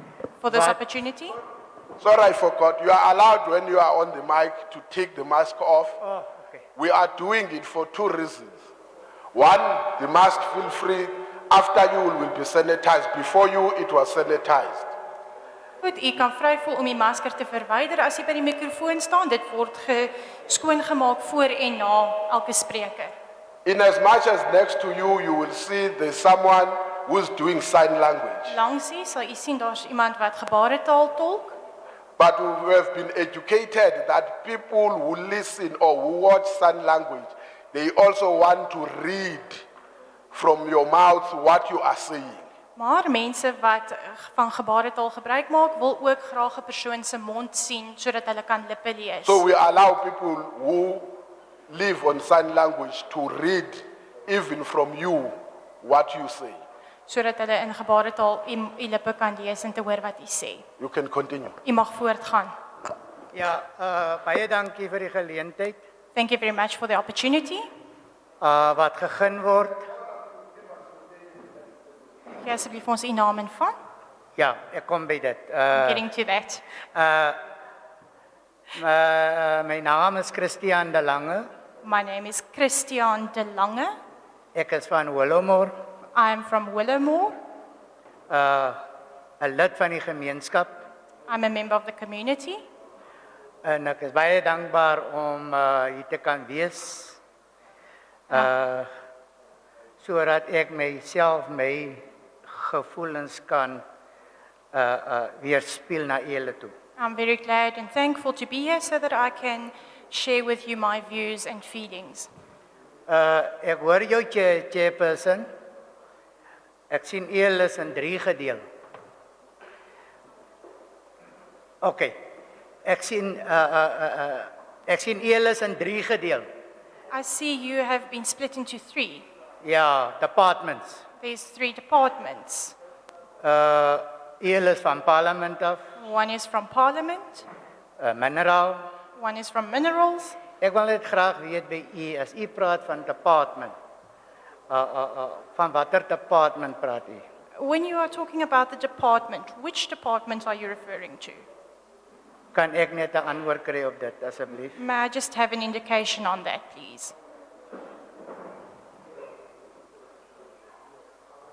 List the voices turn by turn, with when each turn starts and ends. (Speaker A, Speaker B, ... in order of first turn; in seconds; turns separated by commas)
Speaker A: 0.4-1.4, Speaker B: 0.5-0.8, Speaker C: 2.0-6.0, Speaker B: 6.0-6.6, Speaker C: 6.8-8.6, Speaker C: 9.3-14.9, Speaker A: 15.8-23.1, Speaker C: 23.6-28.5, Speaker A: 28.5-31.6, Speaker C: 32.2-39.6, Speaker C: 40.3-42.5, Speaker A: 42.8-49.4, Speaker C: 49.2-56.6, Speaker A: 57.1-60.6, Speaker C: 60.8-61.6, Speaker A: 61.6-62.5, Speaker B: 63.3-65.8, Speaker A: 66.2-67.7, Speaker B: 68.4-69.9, Speaker A: 72.4-73.7, Speaker B: 74.4-76.0, Speaker A: 75.7-76.6, Speaker B: 76.9-77.4, Speaker B: 78.7-81.5, Speaker A: 81.8-83.9, Speaker B: 84.5-85.7, Speaker A: 86.2-87.4, Speaker B: 88.3-88.8, Speaker B: 89.4-90.9, Speaker A: 91.3-92.6, Speaker B: 93.6-97.2, Speaker B: 98.3-98.9, Speaker B: 100.0-103.8, Speaker B: 104.7-106.7, Speaker A: 107.0-112.3, Speaker B: 113.1-115.5, Speaker B: 116.9-118.6, Speaker B: 121.8-122.2, Speaker B: 122.8-126.5, Speaker A: 127.1-129.3, Speaker B: 129.6-131.0, Speaker A: 131.2-132.8, Speaker B: 133.4-135.8, Speaker A: 136.0-137.5, Speaker B: 138.0-138.9, Speaker A: 139.2-140.4, Speaker B: 140.6-143.7, Speaker B: 144.7-147.2, Speaker A: 147.6-151.5, Speaker B: 152.5-154.8, Speaker A: 154.8-157.2